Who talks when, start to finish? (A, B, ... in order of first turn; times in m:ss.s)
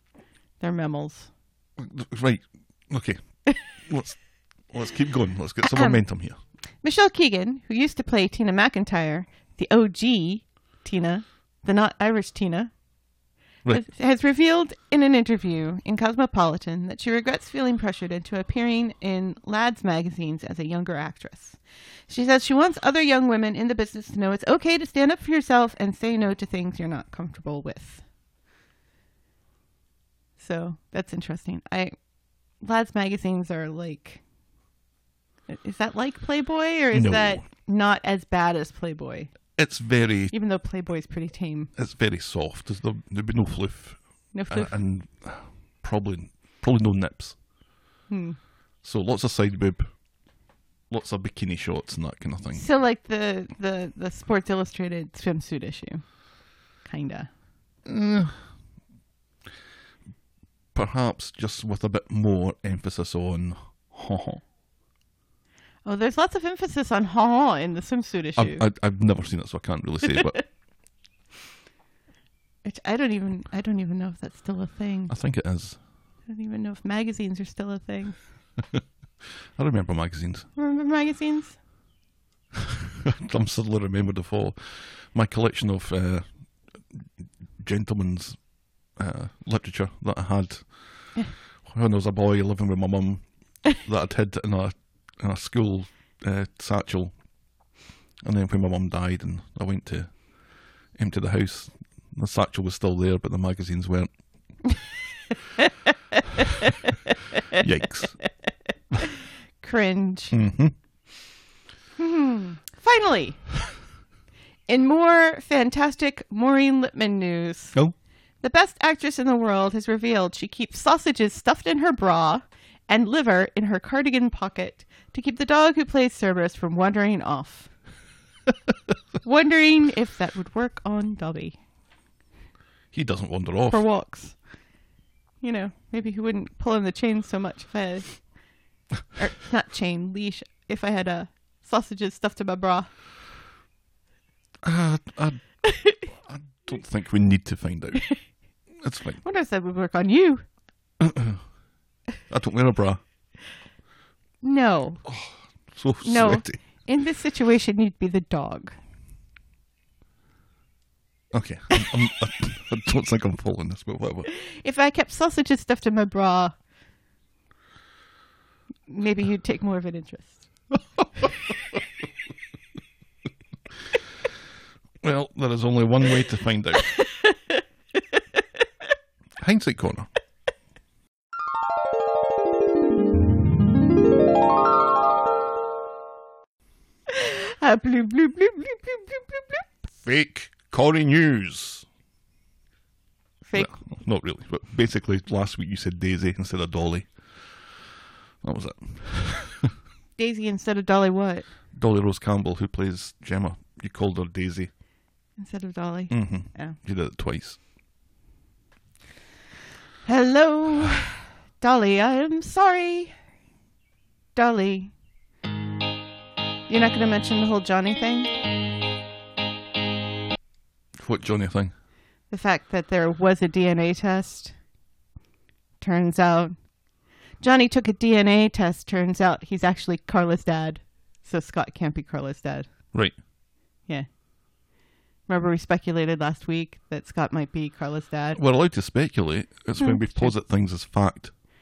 0:00.6-0:01.3 A
0:01.8-0:06.4 B
0:05.6-0:06.0 A
0:06.8-0:12.7 A
0:13.7-0:28.0 A
0:30.4-0:31.9 A
0:32.6-0:34.2 A
0:35.5-0:39.3 A
0:36.9-0:37.4 B
0:39.6-0:40.3 B
0:40.3-0:41.7 A
0:41.7-0:47.4 B
0:44.3-0:44.8 A
0:48.1-0:48.4 A
0:48.8-0:49.9 B
0:50.9-0:52.6 B
0:52.5-0:56.3 A
0:56.8-0:57.3 A
0:57.8-0:58.5 B
1:00.7-1:04.4 B
1:05.8-1:08.6 A
1:08.4-1:10.4 B
1:12.6-1:15.1 A
1:15.1-1:15.8 B
1:16.3-1:18.2 A
1:19.6-1:20.5 B
1:20.6-1:21.6 A
1:23.0-1:37.1 B
1:38.2-1:40.3 B
1:40.9-1:44.1 B
1:47.6-1:48.2 B
1:49.6-1:50.4 A
1:50.3-1:50.7 B
1:52.0-1:53.4 A
1:54.7-1:57.8 A
1:58.4-2:07.7 A
2:09.2-2:11.6 A
2:12.9-2:13.8 B
2:13.7-2:14.4 A
2:15.4-2:18.3 A
2:19.2-2:22.9 A
2:24.6-2:29.2 B
2:25.6-2:26.0 A
2:29.2-2:30.4 A
2:31.0-2:31.4 B
2:32.3-2:33.0 B
2:34.4-2:35.0 A
2:35.0-2:36.6 B
2:36.0-2:38.8 A
2:41.3-2:44.3 B
2:44.3-2:46.6 A
2:48.9-2:50.5 A
2:55.0-2:56.9 B
2:57.0-2:57.6 A
2:59.4-3:00.1 B
3:07.1-3:09.6 A
3:09.9-3:11.8 B
3:13.4-3:13.7 A
3:13.5-3:17.2 B
3:18.4-3:19.7 B
3:20.2-3:21.5 A
3:21.7-3:24.7 B
3:25.4-3:26.8 A
3:26.1-3:27.6 B
3:30.0-3:33.1 A
3:34.3-3:34.9 A
3:36.7-3:38.3 A
3:41.0-3:41.7 B
3:42.3-3:44.5 A
3:45.8-3:46.6 A
3:47.4-3:52.7 A
3:55.3-3:58.4 A
3:58.3-4:01.3 B
3:59.8-4:00.3 A